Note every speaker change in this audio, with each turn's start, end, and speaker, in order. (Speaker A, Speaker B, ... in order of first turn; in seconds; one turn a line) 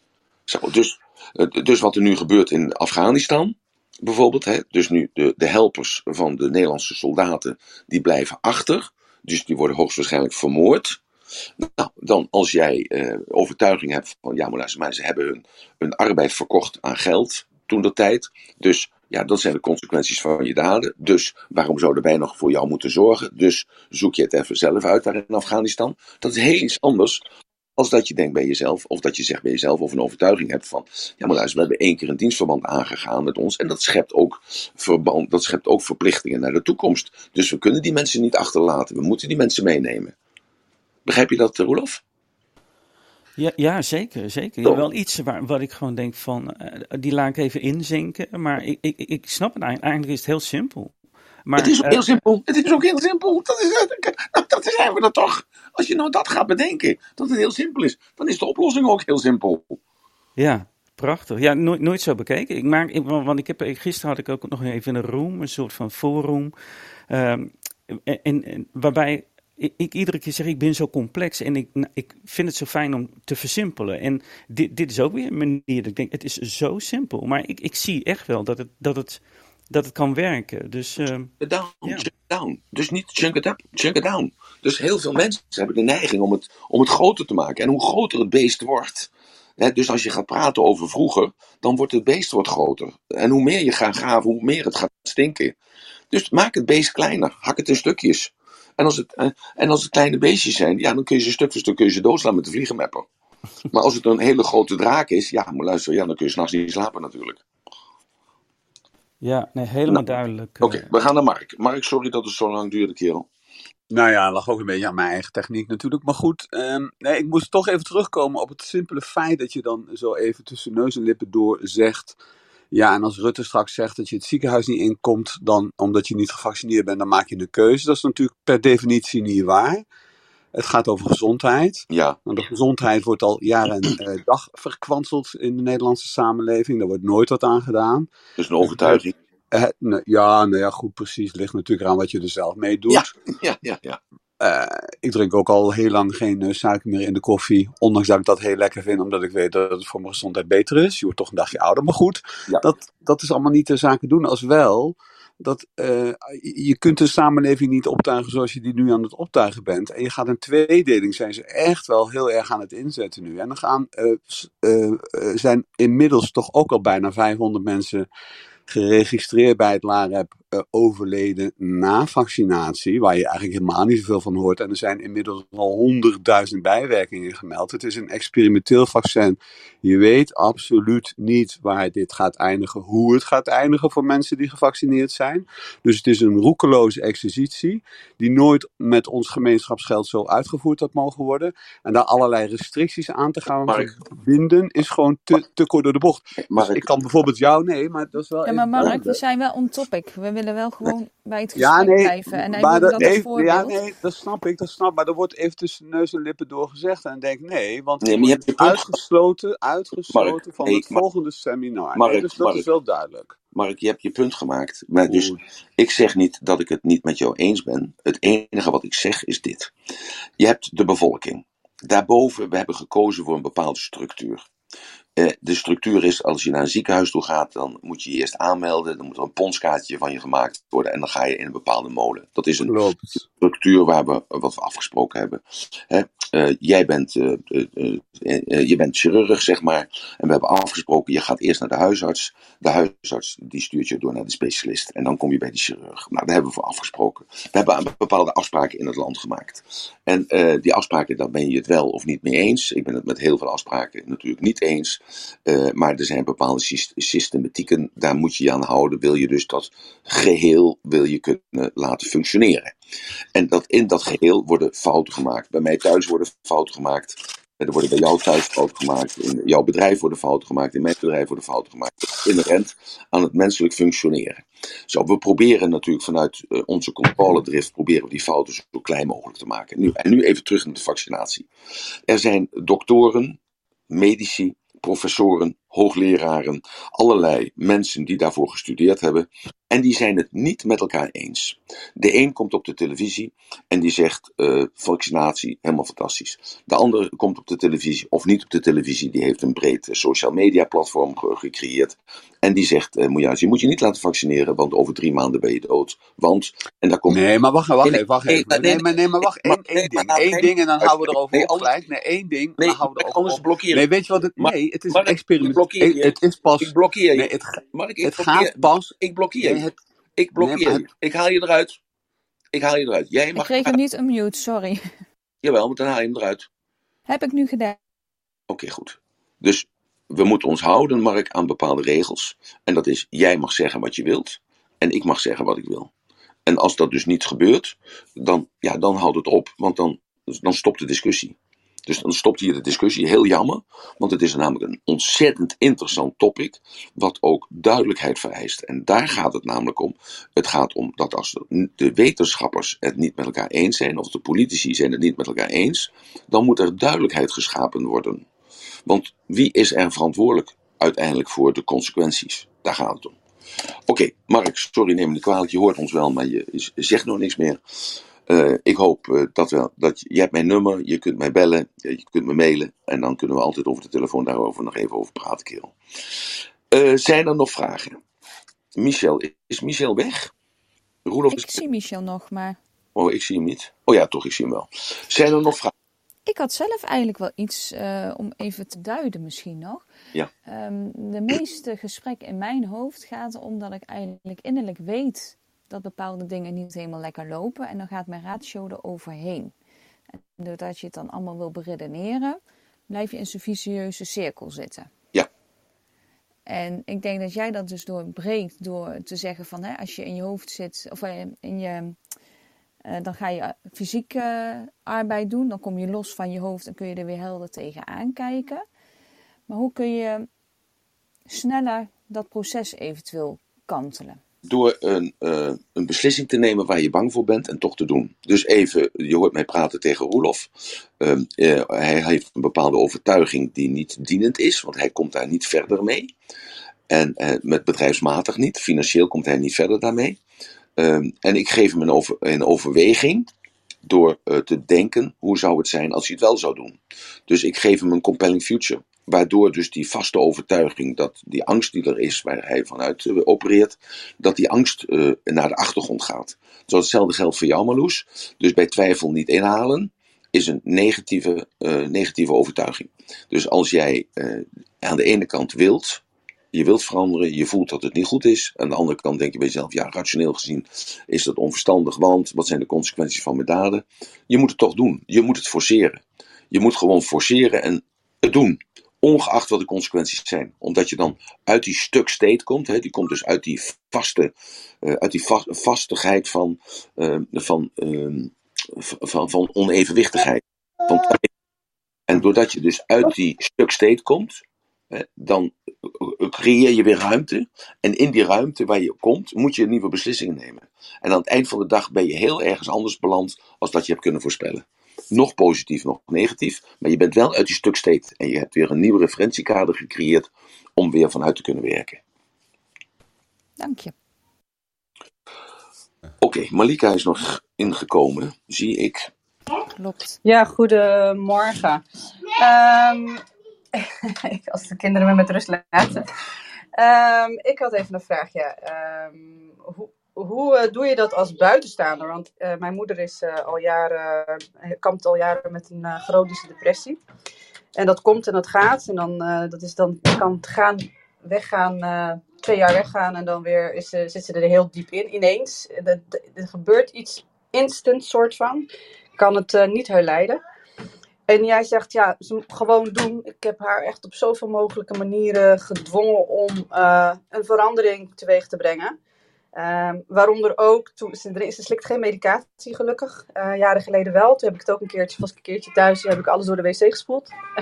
Speaker A: 0.5-11.0
Speaker A: 11.6-27.2
Speaker A: 27.8-40.1
Speaker A: 41.0-42.0
Speaker B: 43.4-50.9
Speaker B: 51.5-52.0
Speaker A: 51.6-59.8
Speaker B: 60.4-66.5
Speaker B: 67.1-79.2
Speaker B: 79.7-81.3
Speaker A: 81.4-95.6
Speaker A: 96.1-103.1
Speaker A: 103.7-107.4
Speaker B: 109.2-110.9
Speaker A: 110.6-113.3
Speaker C: 113.9-122.2
Speaker C: 122.7-129.8
Speaker C: 130.6-138.1
Speaker A: 131.9-132.2
Speaker A: 138.4-139.1
Speaker C: 138.6-143.1
Speaker A: 142.9-144.0
Speaker C: 144.4-168.1
Speaker C: 168.7-199.2
Speaker A: 193.7-193.9
Speaker A: 196.4-196.9
Speaker D: 198.4-203.8
Speaker A: 198.8-199.2
Speaker C: 201.6-213.4
Speaker A: 208.0-208.9
Speaker A: 210.1-211.0
Speaker A: 211.9-212.7
Speaker A: 213.6-219.7
Speaker C: 215.1-215.4
Speaker A: 220.4-224.5
Speaker A: 225.2-232.8
Speaker C: 232.6-233.2
Speaker A: 233.4-262.7
Speaker A: 263.4-281.5
Speaker A: 282.1-283.4
Speaker A: 283.9-307.2
Speaker C: 307.1-319.8
Speaker A: 307.8-311.8
Speaker A: 312.6-313.9
Speaker A: 314.4-321.8
Speaker C: 320.4-320.9
Speaker A: 322.5-323.8
Speaker D: 323.4-324.8
Speaker A: 325.4-326.5
Speaker D: 327.1-327.8
Speaker A: 328.5-335.9
Speaker A: 336.5-341.4
Speaker A: 341.9-358.2
Speaker A: 358.9-363.2
Speaker A: 363.9-367.6
Speaker A: 368.3-375.7
Speaker A: 376.7-378.0
Speaker A: 378.8-380.3
Speaker A: 381.1-381.6
Speaker D: 381.3-382.6
Speaker A: 382.9-385.7
Speaker D: 386.3-389.9
Speaker D: 390.5-399.5
Speaker D: 400.4-404.9
Speaker D: 406.5-412.0
Speaker D: 412.9-418.6
Speaker D: 419.5-420.3
Speaker D: 421.3-424.2
Speaker A: 424.5-436.1
Speaker A: 436.9-440.2
Speaker A: 440.8-443.3
Speaker A: 443.9-466.0
Speaker A: 466.5-491.3
Speaker A: 492.1-512.0
Speaker D: 513.6-513.9
Speaker A: 516.2-519.1
Speaker D: 519.8-520.2
Speaker E: 520.2-521.8
Speaker E: 522.4-523.2
Speaker E: 523.8-526.0
Speaker E: 526.8-537.0
Speaker E: 537.8-550.4
Speaker E: 551.3-559.0
Speaker E: 559.5-567.3